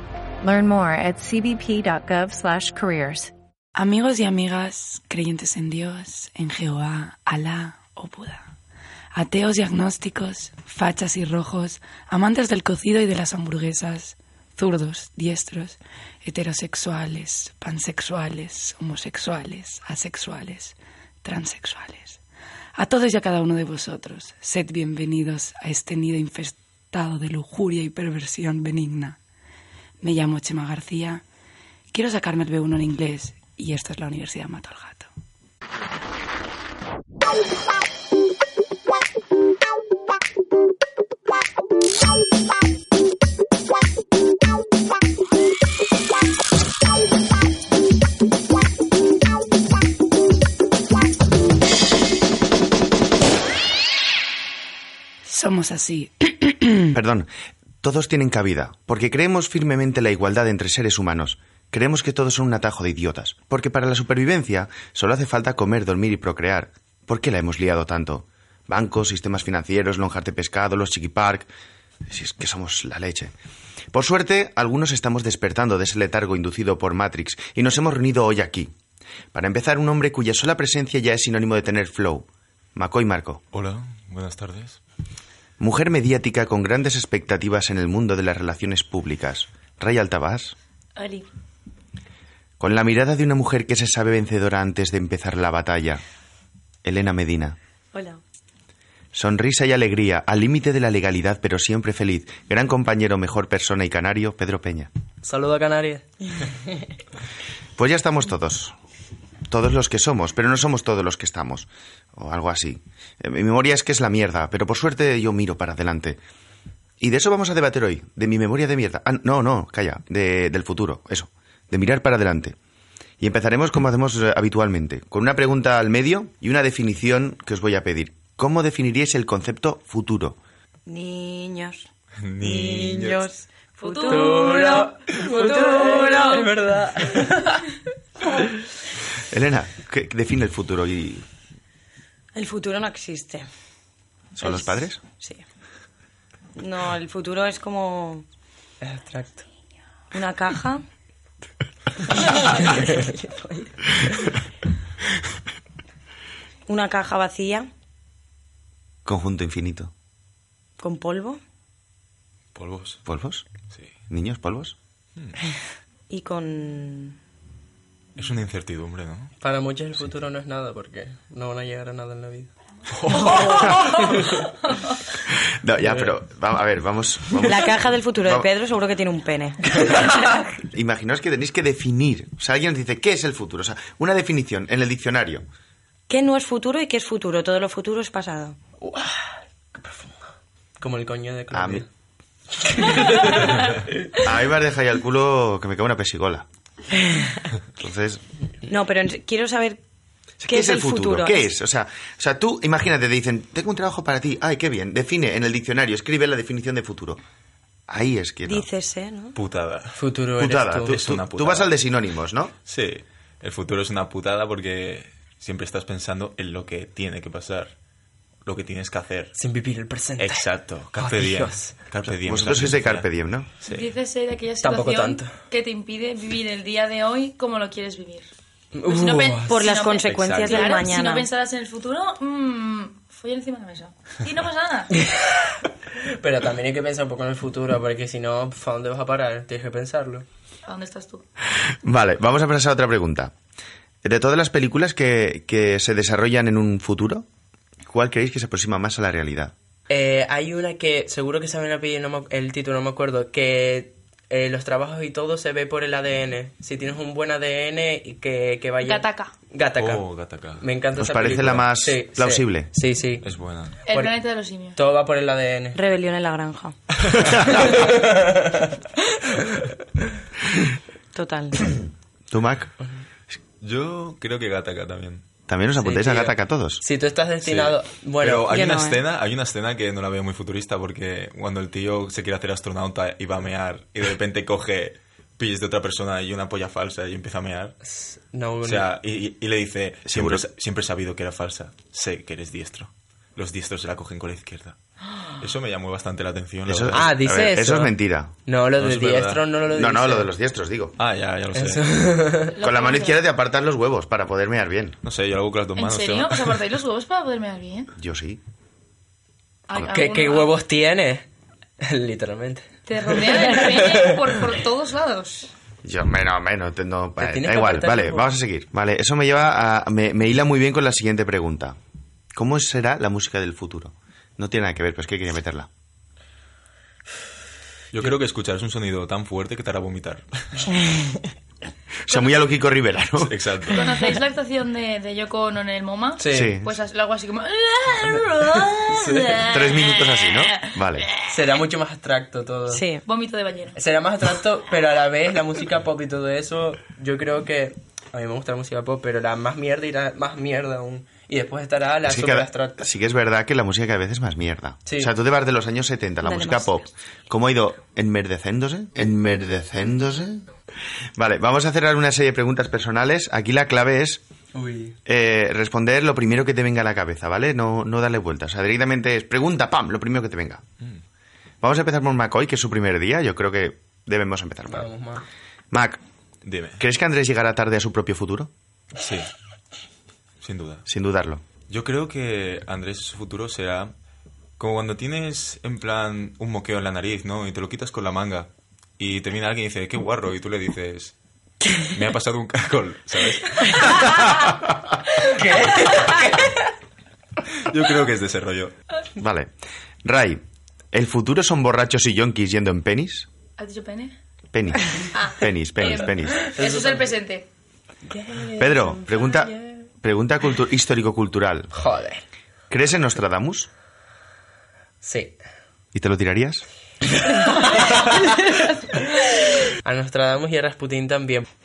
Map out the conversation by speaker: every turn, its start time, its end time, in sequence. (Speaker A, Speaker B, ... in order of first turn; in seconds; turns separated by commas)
Speaker A: 0.4-3.3, Speaker B: 3.8-8.5, Speaker B: 9.1-22.2, Speaker B: 22.8-29.2, Speaker B: 30.0-31.2, Speaker B: 31.9-35.1, Speaker B: 55.3-56.9, Speaker C: 56.9-57.3, Speaker C: 57.8-71.5, Speaker C: 72.1-73.3, Speaker C: 73.9-78.7, Speaker C: 79.3-83.4, Speaker D: 83.5-84.8, Speaker C: 85.6-90.5, Speaker E: 91.0-91.3, Speaker C: 92.6-96.0, Speaker C: 96.8-97.6, Speaker F: 97.9-98.2, Speaker C: 99.1-104.9, Speaker G: 105.2-106.0, Speaker C: 107.8-108.8, Speaker C: 109.5-116.2, Speaker C: 117.0-122.6, Speaker C: 123.2-130.4, Speaker F: 130.9-131.9, Speaker D: 132.2-133.2, Speaker F: 132.4-136.5, Speaker E: 133.8-134.7, Speaker G: 134.1-137.7, Speaker C: 139.3-141.2, Speaker F: 142.3-143.5, Speaker C: 144.4-145.0, Speaker F: 145.2-145.4, Speaker F: 146.6-148.2, Speaker G: 148.8-149.4, Speaker F: 150.1-150.8, Speaker F: 152.1-153.7, Speaker F: 156.7-157.7, Speaker C: 159.1-159.9, Speaker F: 160.8-161.4, Speaker D: 162.6-163.0, Speaker C: 163.1-163.5, Speaker C: 164.1-164.8, Speaker F: 166.1-167.2, Speaker D: 168.2-169.3, Speaker G: 169.4-172.5, Speaker D: 172.9-173.8, Speaker G: 173.6-174.4, Speaker C: 175.3-178.5, Speaker F: 177.4-179.7, Speaker G: 179.8-180.1, Speaker C: 180.7-185.4, Speaker F: 186.1-188.6, Speaker G: 188.8-191.9, Speaker C: 191.5-191.8, Speaker G: 192.6-193.7, Speaker C: 194.2-196.5, Speaker F: 197.0-197.4, Speaker C: 197.8-198.2, Speaker F: 198.7-199.8, Speaker C: 200.4-207.2, Speaker F: 200.5-201.5, Speaker C: 207.9-208.7, Speaker F: 208.5-209.4, Speaker D: 209.3-210.0, Speaker G: 209.9-211.0, Speaker C: 210.4-212.5, Speaker D: 210.9-211.7, Speaker D: 212.7-217.7, Speaker D: 218.4-219.3, Speaker G: 219.4-221.8, Speaker D: 220.2-223.1, Speaker C: 222.2-223.5, Speaker D: 223.6-223.9, Speaker E: 223.7-228.3, Speaker G: 224.6-225.4, Speaker G: 228.7-229.6, Speaker E: 228.8-234.9, Speaker F: 229.5-231.3, Speaker D: 230.1-230.7, Speaker G: 235.0-235.6, Speaker G: 236.1-240.2, Speaker E: 240.7-241.2, Speaker C: 241.8-243.3, Speaker C: 244.0-247.3, Speaker C: 247.9-249.5, Speaker G: 249.9-260.0, Speaker E: 258.8-259.3, Speaker D: 259.8-261.6, Speaker G: 260.6-263.2, Speaker C: 261.0-262.7, Speaker D: 263.2-263.8, Speaker E: 263.9-264.8, Speaker G: 263.9-264.2, Speaker G: 264.8-265.8, Speaker F: 265.7-266.8, Speaker G: 267.5-268.7, Speaker F: 271.1-271.7, Speaker C: 272.3-272.7, Speaker D: 273.6-275.2, Speaker C: 275.5-276.8, Speaker G: 275.8-278.5, Speaker D: 277.4-287.8, Speaker F: 278.5-279.0, Speaker G: 287.8-288.9, Speaker D: 288.6-294.8, Speaker C: 290.1-290.5, Speaker D: 295.3-297.1, Speaker C: 296.7-298.3, Speaker G: 296.9-297.9, Speaker G: 298.5-300.3, Speaker D: 298.8-299.5, Speaker C: 299.7-300.9, Speaker D: 301.0-302.1, Speaker G: 301.5-302.6, Speaker E: 302.5-303.2, Speaker C: 302.6-305.0, Speaker D: 305.0-306.6, Speaker E: 305.8-307.9, Speaker C: 308.0-308.4, Speaker E: 309.7-310.5, Speaker G: 309.8-311.3, Speaker G: 311.8-314.3, Speaker E: 312.9-315.5, Speaker C: 315.8-321.8, Speaker G: 317.2-318.3, Speaker C: 322.3-325.7, Speaker D: 327.9-330.7, Speaker C: 332.1-333.3, Speaker D: 333.2-333.9, Speaker E: 333.7-341.3, Speaker G: 336.2-336.6, Speaker C: 336.3-336.7, Speaker G: 338.0-339.5, Speaker C: 339.4-341.1, Speaker G: 341.3-342.9, Speaker F: 342.7-343.0, Speaker E: 343.1-343.8, Speaker G: 343.8-352.8, Speaker C: 352.0-360.5, Speaker G: 354.9-355.1, Speaker F: 356.2-356.8, Speaker C: 361.2-364.2, Speaker G: 364.5-365.0, Speaker C: 365.1-370.6, Speaker C: 371.6-374.9, Speaker G: 374.7-375.2, Speaker C: 375.7-376.0, Speaker D: 376.4-376.8, Speaker C: 376.8-378.5, Speaker D: 379.0-379.3, Speaker D: 380.4-380.9, Speaker C: 380.9-381.4, Speaker D: 381.7-383.9, Speaker D: 384.6-391.1, Speaker D: 391.8-394.6, Speaker G: 395.3-396.6, Speaker D: 397.6-398.7, Speaker C: 399.2-399.5, Speaker C: 400.0-403.3, Speaker E: 403.6-404.1, Speaker C: 404.5-406.4, Speaker E: 405.1-407.5, Speaker G: 406.4-407.1, Speaker G: 408.1-409.8, Speaker C: 408.6-411.7, Speaker G: 411.7-412.2, Speaker C: 412.7-413.7, Speaker G: 415.0-415.4, Speaker C: 415.9-416.6, Speaker G: 417.3-421.5